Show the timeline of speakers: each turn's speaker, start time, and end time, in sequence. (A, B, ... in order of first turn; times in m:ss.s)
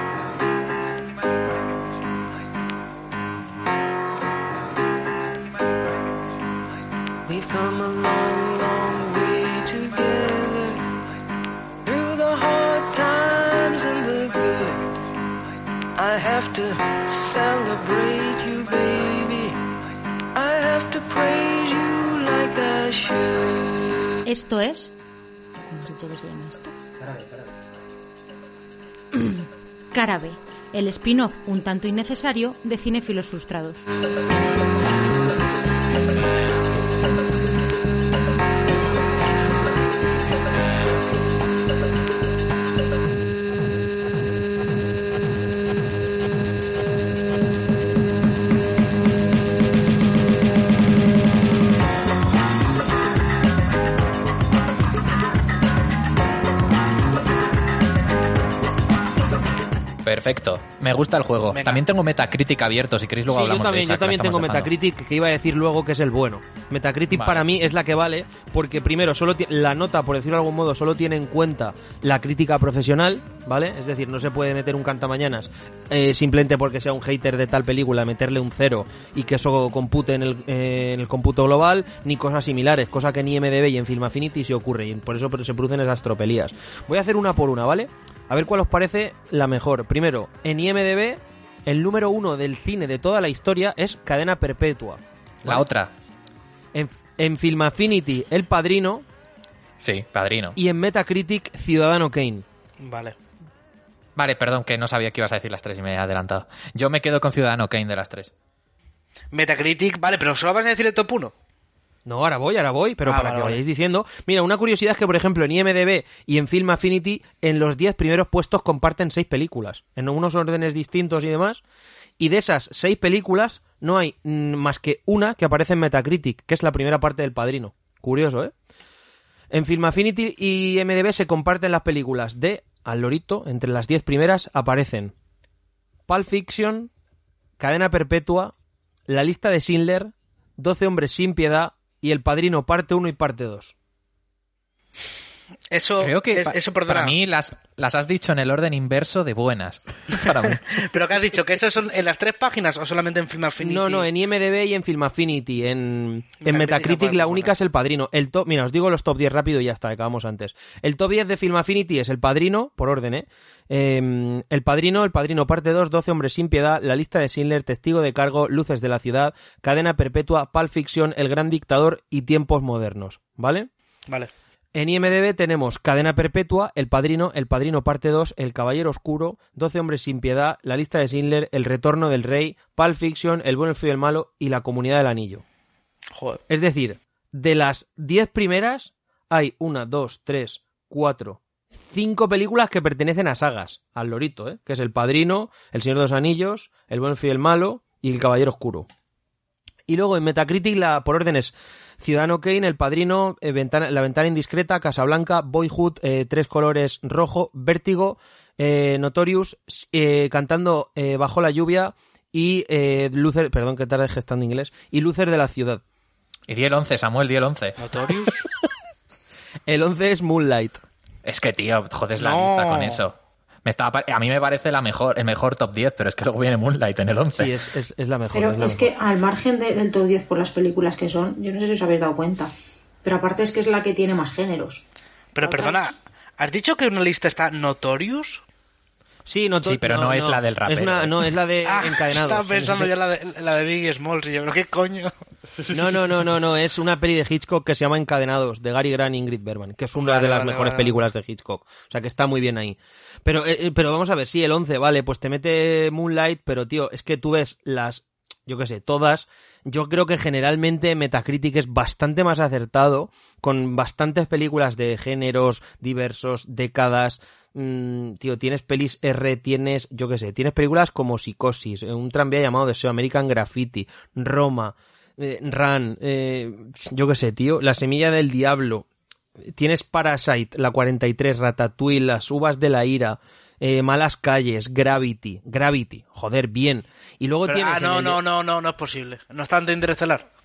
0:07.2-0:10.8 A
0:11.8-0:15.0 A
0:16.0-0:19.6 A
0:20.3-0:24.0 A
0:24.2-0:24.9 B
0:25.6-0:26.8 B
0:29.1-0:33.9 B
1:00.0-1:04.7 C
1:01.5-1:01.8 D
1:03.3-1:35.6 E
1:07.1-1:07.5 C
1:35.4-1:35.9 C
1:36.7-1:39.0 E
1:39.8-1:40.6 C
1:40.6-1:42.4 E
1:42.8-1:43.2 D
1:44.2-1:48.3 C
1:49.3-1:51.3 D
1:52.0-2:01.6 E
1:53.0-1:53.6 D
2:02.2-2:08.5 E
2:09.5-2:15.1 E
2:16.1-2:16.9 E
2:17.6-2:18.5 E
2:19.1-2:23.7 E
2:25.7-2:27.1 D
2:26.0-2:30.6 C
2:30.7-2:34.1 D
2:33.6-2:53.7 E
2:36.4-2:37.5 D
2:54.7-3:05.4 E
3:06.1-3:06.4 D
3:06.5-3:18.9 E
3:19.9-3:35.8 E
3:36.5-3:37.8 C
3:37.8-3:38.4 D
3:39.7-3:40.8 E
3:41.2-3:47.6 C
3:42.2-3:43.0 D
3:47.4-3:48.9 E
3:48.3-3:52.5 F
3:53.0-3:54.8 F
3:55.3-3:58.4 D
3:55.4-3:55.8 F
3:59.2-4:02.9 E
3:59.6-4:01.3 C
4:01.6-4:05.1 D
4:05.7-4:38.8 E
4:10.0-4:11.0 D
4:39.5-4:48.2 E
4:47.5-4:50.3 D